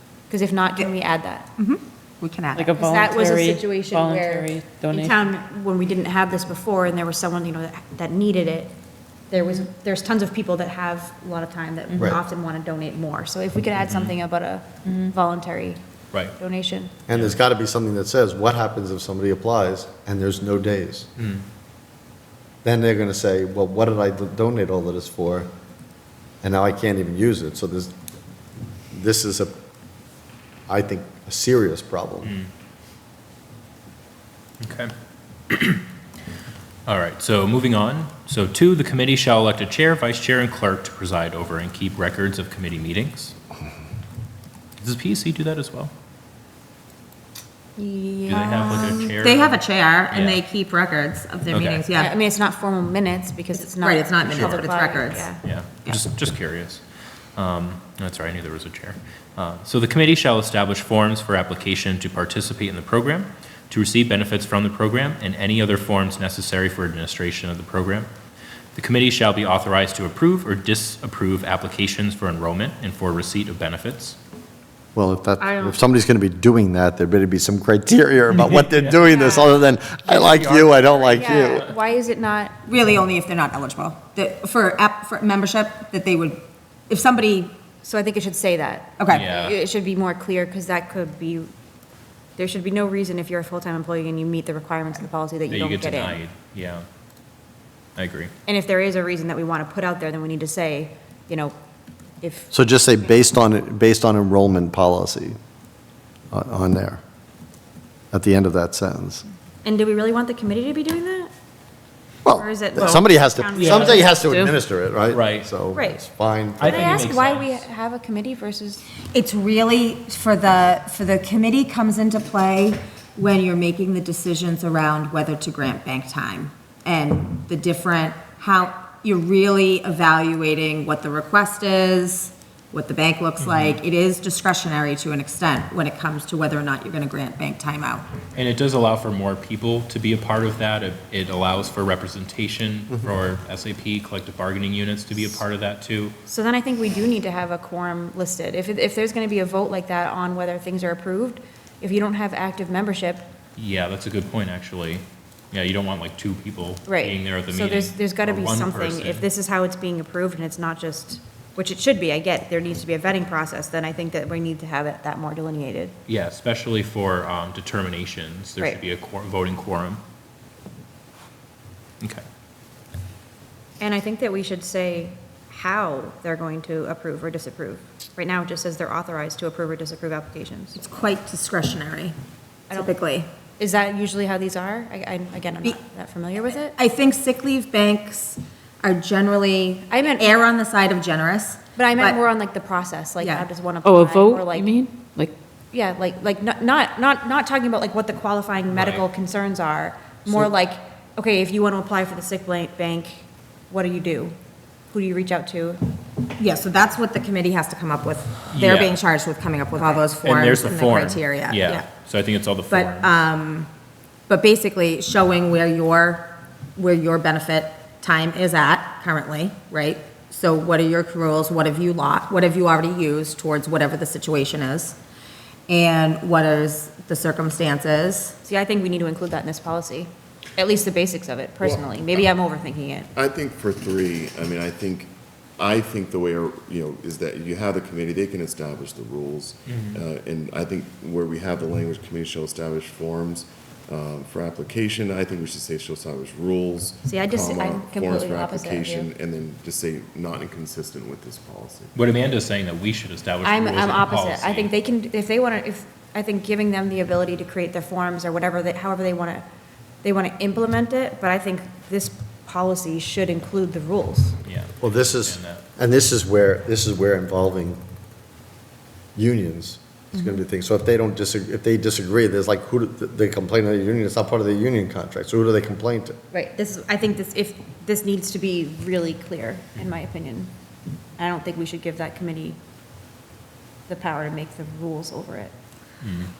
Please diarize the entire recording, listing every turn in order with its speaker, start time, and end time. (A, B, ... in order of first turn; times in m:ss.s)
0:00.3-0:01.5 A
0:01.6-0:02.7 B
0:02.6-0:05.1 C
0:02.8-0:08.7 A
0:09.3-0:15.8 A
0:13.9-0:14.1 D
0:16.4-0:16.9 A
0:17.1-0:21.1 E
0:17.1-0:17.4 D
0:21.2-0:21.4 D
0:22.6-0:25.5 E
0:26.4-0:27.9 E
0:28.9-0:29.5 E
0:30.7-0:32.4 E
0:34.6-0:34.9 D
0:35.5-0:35.8 D
0:36.9-0:43.3 D
0:44.8-0:45.9 D
0:47.8-0:49.1 A
0:48.3-0:50.4 D
0:49.0-0:52.1 B
0:51.5-0:51.8 D
0:52.0-0:55.4 A
0:53.8-0:55.3 B
0:55.4-0:56.8 D
0:57.4-1:08.1 D
1:08.8-1:14.2 D
1:14.9-1:21.7 E
1:15.4-1:15.8 A
1:18.5-1:19.0 D
1:18.9-1:19.6 A
1:20.0-1:21.6 D
1:21.1-1:22.6 A
1:22.7-1:27.6 B
1:27.8-1:31.5 A
1:29.0-1:29.3 B
1:29.1-1:29.6 D
1:32.4-1:36.2 A
1:35.5-1:36.8 D
1:38.0-1:38.3 D
1:38.4-1:41.5 A
1:42.2-1:42.5 A
1:42.5-1:45.4 E
1:46.3-1:47.0 E
1:48.1-1:49.2 E
1:49.6-1:51.3 A
1:52.2-1:57.0 E
1:52.3-1:54.2 A
1:53.6-1:53.9 D
1:54.0-1:54.6 C
1:55.1-1:55.5 D
1:55.7-1:56.0 A
1:56.6-1:57.6 D
1:56.6-1:58.8 A
1:59.1-2:18.1 B
2:13.4-2:13.8 D
2:18.4-2:26.2 D
2:26.2-2:33.3 A
2:33.6-2:39.2 D
2:36.9-2:45.9 A
2:46.1-2:50.0 D
2:53.8-3:00.8 A
3:00.8-3:02.2 B
3:02.7-3:03.3 B
3:03.6-3:06.8 A
3:06.7-3:12.2 B
3:09.9-3:10.4 A
3:11.8-3:14.8 A
3:13.2-3:13.5 B
3:13.8-3:15.3 C
3:15.7-3:24.4 A
3:18.7-3:19.0 D
3:24.9-3:25.8 A
3:26.4-3:31.9 B
3:28.5-3:29.0 D
3:30.2-3:33.1 D
3:32.7-3:33.7 B
3:34.3-3:45.0 B
3:45.7-3:48.4 B
3:48.4-3:53.1 A
3:51.6-3:51.9 F
3:53.2-4:11.9 F
3:59.7-4:00.0 D
4:07.0-4:09.1 A
4:11.9-4:14.7 D
4:13.4-4:19.4 A
4:20.0-4:24.4 A
4:24.4-4:25.6 D
4:24.8-4:27.8 E
4:29.2-4:36.2 E
4:30.1-4:30.4 A
4:36.3-4:40.5 A
4:41.2-4:42.6 A
4:43.9-4:45.5 A
4:46.0-4:46.3 D